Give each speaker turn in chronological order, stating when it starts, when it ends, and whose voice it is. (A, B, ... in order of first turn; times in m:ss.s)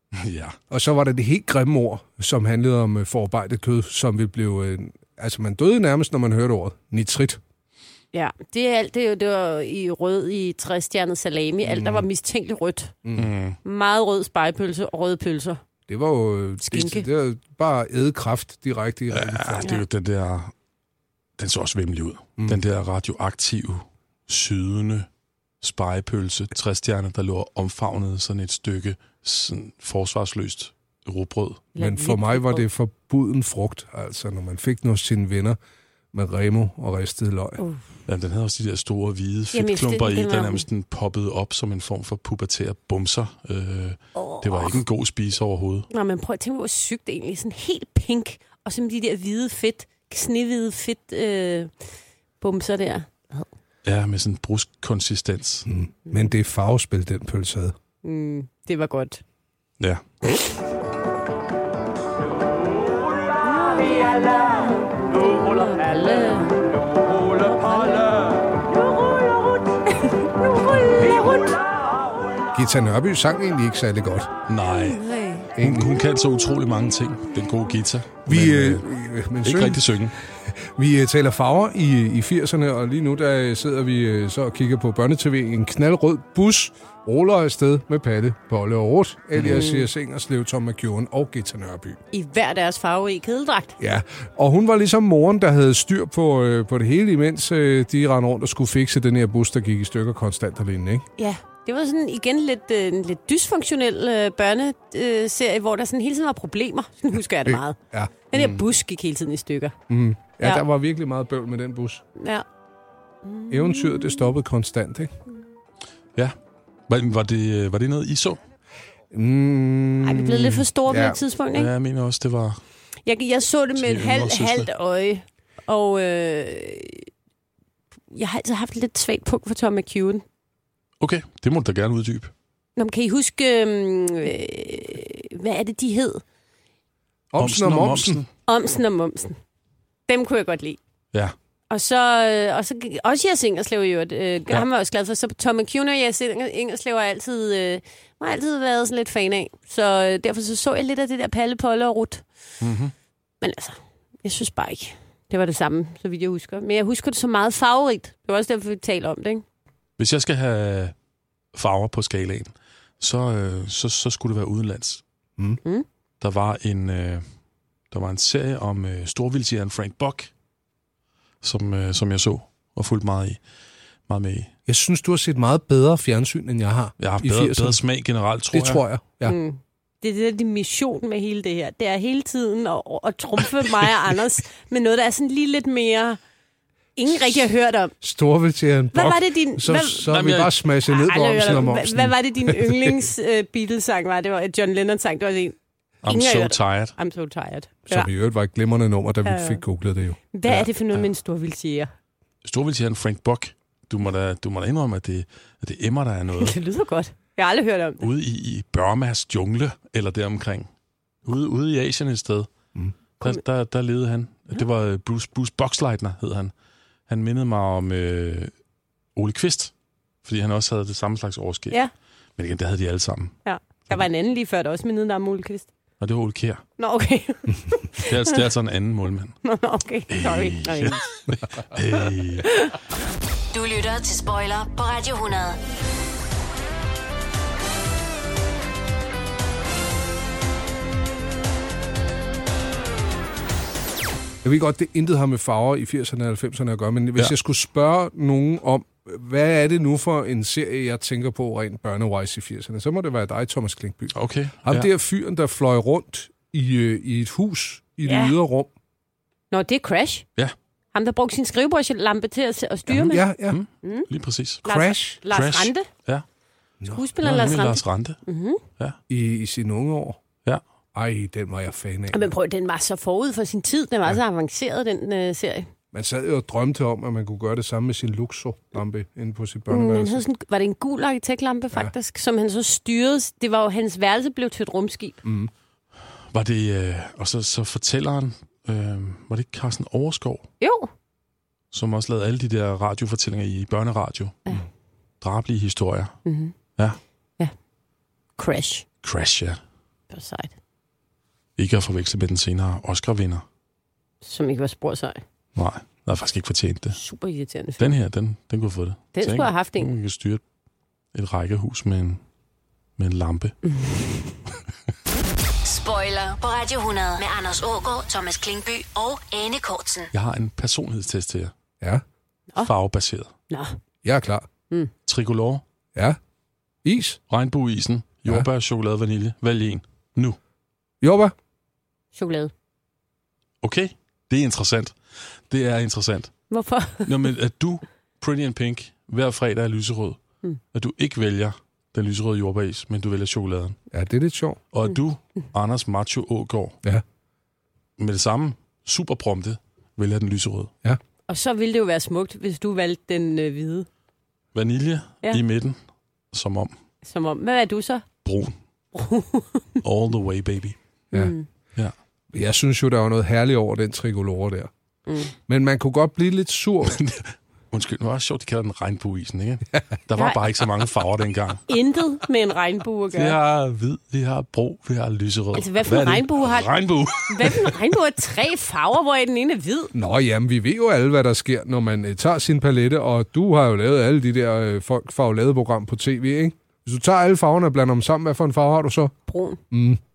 0:00.1-0:00.6 A
0:00.7-0:07.4 B
0:08.1-0:12.9 C
0:11.6-0:12.0 B
0:13.0-0:13.3 B
0:13.1-0:13.6 A
0:13.6-0:15.6 C
0:15.9-0:19.7 B
0:16.6-0:17.0 C
0:19.1-0:20.5 A
0:21.4-0:25.1 A
0:25.6-0:31.7 A
0:31.7-0:32.6 C
0:31.8-0:35.6 B
0:36.1-0:37.6 B
0:38.1-0:45.9 A
0:39.5-0:40.6 C
0:44.2-0:44.8 C
0:45.9-0:53.5 C
0:53.8-0:55.7 A
0:55.7-0:57.7 B
0:58.0-0:59.2 C
1:03.4-1:06.7 C
1:07.2-1:08.3 C
1:09.9-1:11.1 C
1:12.5-1:14.3 B
1:14.5-1:15.0 A
1:14.7-1:15.5 C
1:15.6-1:18.8 A
1:15.6-1:16.0 B
1:18.2-1:32.0 B
1:19.4-1:20.1 A
1:29.4-1:29.9 C
1:32.1-1:33.8 C
1:33.8-1:41.0 B
1:41.2-1:47.8 C
1:48.3-1:49.7 C
1:48.3-1:48.6 A
1:49.9-1:52.0 B
1:52.2-1:52.4 C
1:53.2-1:54.3 C
1:53.5-1:55.1 B
1:56.9-1:58.4 A
1:59.1-2:01.2 B
2:00.0-2:01.7 C
2:01.5-2:02.6 A
2:03.0-2:07.1 C
2:03.8-2:04.7 A
2:08.1-2:10.2 C
2:11.0-2:12.3 A
2:12.8-2:16.2 C
2:17.3-2:18.2 B
2:17.4-2:18.3 A
2:18.5-2:19.4 C
2:20.1-2:20.8 C
2:21.7-2:32.2 C
2:32.6-2:32.9 A
2:33.4-2:39.4 C
2:40.0-2:40.9 A
2:41.5-2:45.0 A
2:46.2-2:47.2 A
2:47.9-2:50.3 A
2:51.4-2:53.4 A
2:54.1-2:54.5 A
2:54.7-2:57.8 B
2:57.0-2:58.8 A
2:58.5-2:59.4 B
2:59.2-3:06.2 C
3:07.0-3:07.9 C
3:08.0-3:13.1 B
3:08.9-3:10.2 C
3:10.0-3:10.6 A
3:10.9-3:15.6 C
3:16.0-3:16.9 A
3:16.1-3:18.1 C
3:17.9-3:20.6 B
3:19.2-3:19.6 C
3:20.3-3:21.9 C
3:22.4-3:26.6 A
3:26.4-3:28.0 C
3:28.0-3:30.7 A
3:31.2-3:32.5 A
3:33.2-3:36.5 A
3:37.1-3:38.5 A
3:39.1-3:39.7 A
3:40.2-3:41.8 A
3:42.4-3:43.3 A
3:43.4-3:45.7 C
3:46.0-3:46.6 A
3:46.8-3:48.4 C
3:48.1-3:49.4 A
3:49.4-3:51.0 C
3:50.1-3:52.5 A
3:52.4-3:52.7 C
3:53.5-3:55.6 D
4:04.4-4:18.7 B
4:14.1-4:14.9 A
4:18.0-4:18.4 C
4:19.5-4:20.2 C
4:20.9-4:23.2 C
4:22.9-4:24.6 A
4:23.1-4:23.6 B
4:23.8-4:24.1 C
4:24.6-4:25.9 C
4:24.6-4:25.2 B
4:25.3-4:26.2 A
4:26.9-4:28.6 C
4:27.2-4:28.2 A
4:29.1-4:30.2 B
4:30.9-4:32.3 B
4:32.1-4:35.7 C
4:35.9-4:40.2 B
4:39.7-4:45.2 C
4:45.2-4:45.5 B
4:46.3-4:50.5 A
4:50.6-4:50.9 C
4:51.7-4:54.4 A
4:55.2-4:56.2 A
4:56.2-4:56.5 C
4:58.4-4:58.8 C
4:59.0-4:59.6 A
5:00.1-5:00.5 C
5:01.6-5:03.4 A
5:04.2-5:05.2 C
5:05.6-5:07.0 A
5:06.9-5:07.9 C
5:07.8-5:10.4 A
5:09.1-5:09.9 C
5:11.1-5:12.2 A
5:13.0-5:13.6 A
5:13.6-5:14.3 C
5:15.6-5:20.1 D
5:20.1-5:21.5 A
5:22.6-5:23.3 A
5:23.5-5:23.8 C
5:24.0-5:24.5 B
5:25.0-5:25.6 A
5:26.8-5:27.2 B
5:27.3-5:30.4 A
5:31.0-5:31.3 B
5:32.1-5:32.5 C
5:33.6-5:36.3 A
5:36.5-5:37.1 C
5:37.0-5:40.2 A
5:40.7-5:43.8 A
5:43.9-5:44.6 B
5:44.7-5:46.8 A
5:48.0-5:50.7 A
5:51.3-5:53.9 C
5:54.5-5:55.8 A
5:56.3-5:56.7 A
5:57.0-5:58.0 C
5:58.2-5:58.5 A
5:58.9-5:59.8 C
5:59.8-6:00.8 A
6:01.1-6:01.5 C
6:02.3-6:04.7 B
6:05.1-6:05.3 C
6:05.5-6:07.0 B
6:06.9-6:11.6 A
6:10.2-6:10.4 C
6:11.7-6:13.4 C
6:13.1-6:17.8 A
6:15.5-6:19.9 C
6:19.9-6:29.1 B
6:29.3-6:29.6 C
6:29.7-6:30.0 B